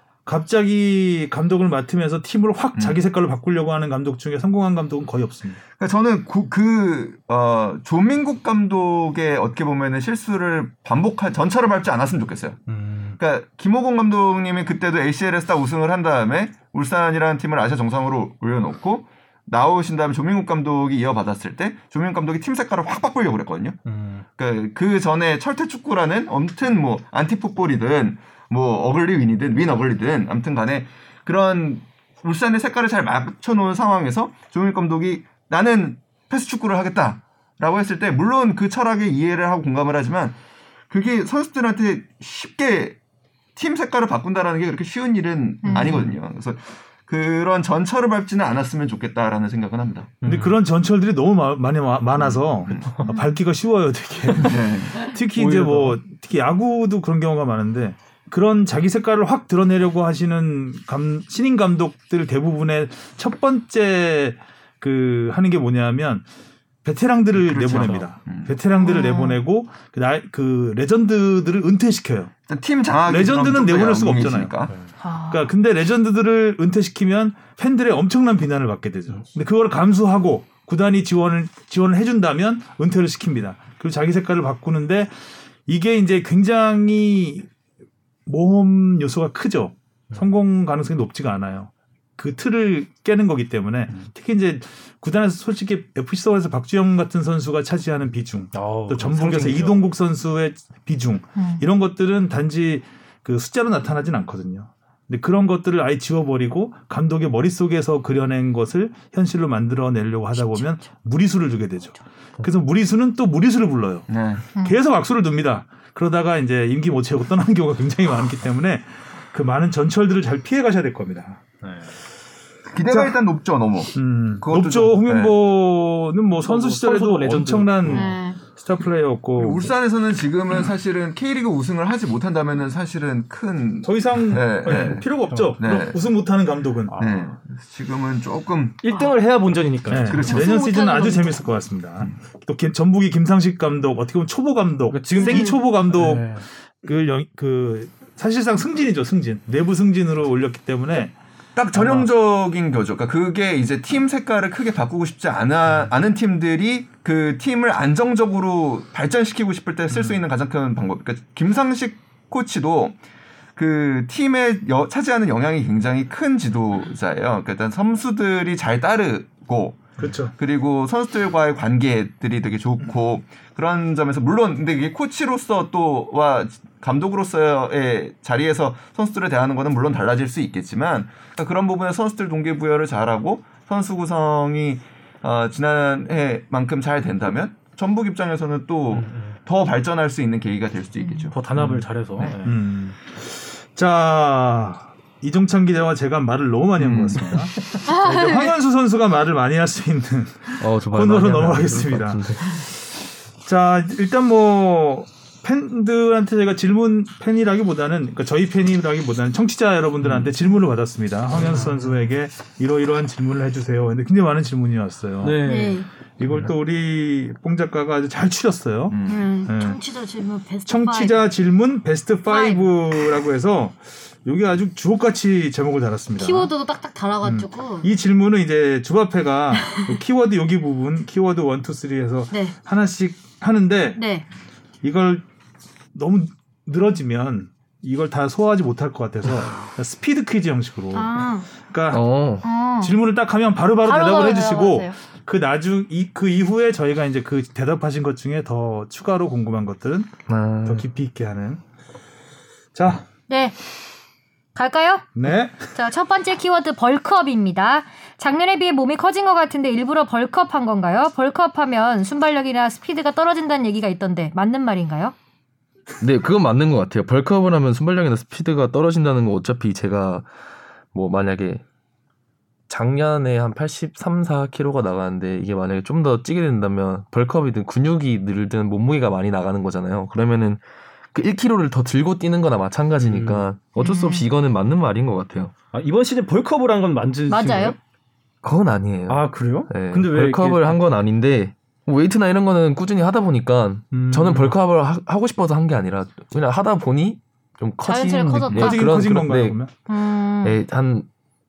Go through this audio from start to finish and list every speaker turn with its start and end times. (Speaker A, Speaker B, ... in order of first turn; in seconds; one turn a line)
Speaker A: 0.3-5.6
Speaker B: 5.8-12.6
Speaker C: 12.7-13.2
Speaker B: 13.2-23.8
Speaker C: 23.9-24.2
Speaker B: 24.4-40.4
Speaker B: 40.9-43.0
Speaker B: 43.6-50.2
Speaker D: 45.6-46.0
Speaker C: 50.2-50.6
Speaker A: 50.2-66.3
Speaker B: 52.2-53.0
Speaker B: 54.4-55.1
Speaker C: 55.3-56.0
Speaker A: 66.8-72.3
Speaker B: 67.4-68.6
Speaker D: 68.8-69.4
Speaker B: 72.5-74.7
Speaker A: 73.1-74.5
Speaker D: 75.0-75.5
Speaker A: 75.3-85.1
Speaker A: 85.7-87.5
Speaker A: 88.3-121.4
Speaker C: 98.5-99.9
Speaker D: 101.4-101.6
Speaker D: 110.3-110.9
Speaker B: 114.1-114.5
Speaker C: 121.6-122.0
Speaker B: 122.7-125.4
Speaker A: 122.9-123.2
Speaker A: 124.0-129.7
Speaker C: 126.4-128.2
Speaker D: 127.9-128.4
Speaker B: 129.4-135.1
Speaker A: 133.8-137.0
Speaker B: 135.6-136.0
Speaker C: 136.9-137.3
Speaker B: 137.0-138.8
Speaker C: 138.8-140.3
Speaker A: 139.9-151.2
Speaker B: 139.9-140.7
Speaker D: 140.3-141.5
Speaker C: 144.9-146.4
Speaker D: 145.2-145.6
Speaker B: 151.6-163.0
Speaker A: 151.8-152.1
Speaker B: 163.6-191.4
Speaker A: 170.0-170.3
Speaker C: 188.9-189.4
Speaker D: 191.0-191.3
Speaker C: 191.3-192.6
Speaker A: 191.5-202.8
Speaker B: 196.8-197.3
Speaker D: 197.9-198.5
Speaker E: 200.6-202.6
Speaker A: 203.4-215.4
Speaker C: 211.4-211.7
Speaker C: 215.2-215.8
Speaker D: 215.4-215.9
Speaker A: 216.2-219.8
Speaker B: 218.9-219.3
Speaker D: 219.1-221.2
Speaker A: 220.7-226.5
Speaker D: 222.3-223.2
Speaker D: 226.2-227.9
Speaker A: 227.2-234.0
Speaker D: 229.6-229.9
Speaker D: 232.3-232.6
Speaker D: 233.9-234.3
Speaker A: 234.8-235.2
Speaker A: 235.9-242.1
Speaker D: 240.9-241.5
Speaker E: 241.9-242.5
Speaker D: 242.4-243.0
Speaker A: 242.8-251.6
Speaker D: 243.8-245.0
Speaker E: 250.3-250.8
Speaker A: 252.7-253.1
Speaker D: 253.3-253.6
Speaker D: 254.6-255.1
Speaker A: 255.2-255.6
Speaker D: 255.7-265.1
Speaker E: 266.0-270.3
Speaker E: 270.9-271.6
Speaker E: 272.7-280.6
Speaker E: 281.1-285.5
Speaker C: 283.0-283.5
Speaker D: 283.8-284.3
Speaker C: 285.7-287.8
Speaker D: 287.3-287.8
Speaker E: 288.4-299.6
Speaker C: 289.1-290.8
Speaker A: 293.9-294.6
Speaker D: 297.8-298.9
Speaker A: 298.5-299.7
Speaker D: 299.9-300.6
Speaker E: 300.4-301.1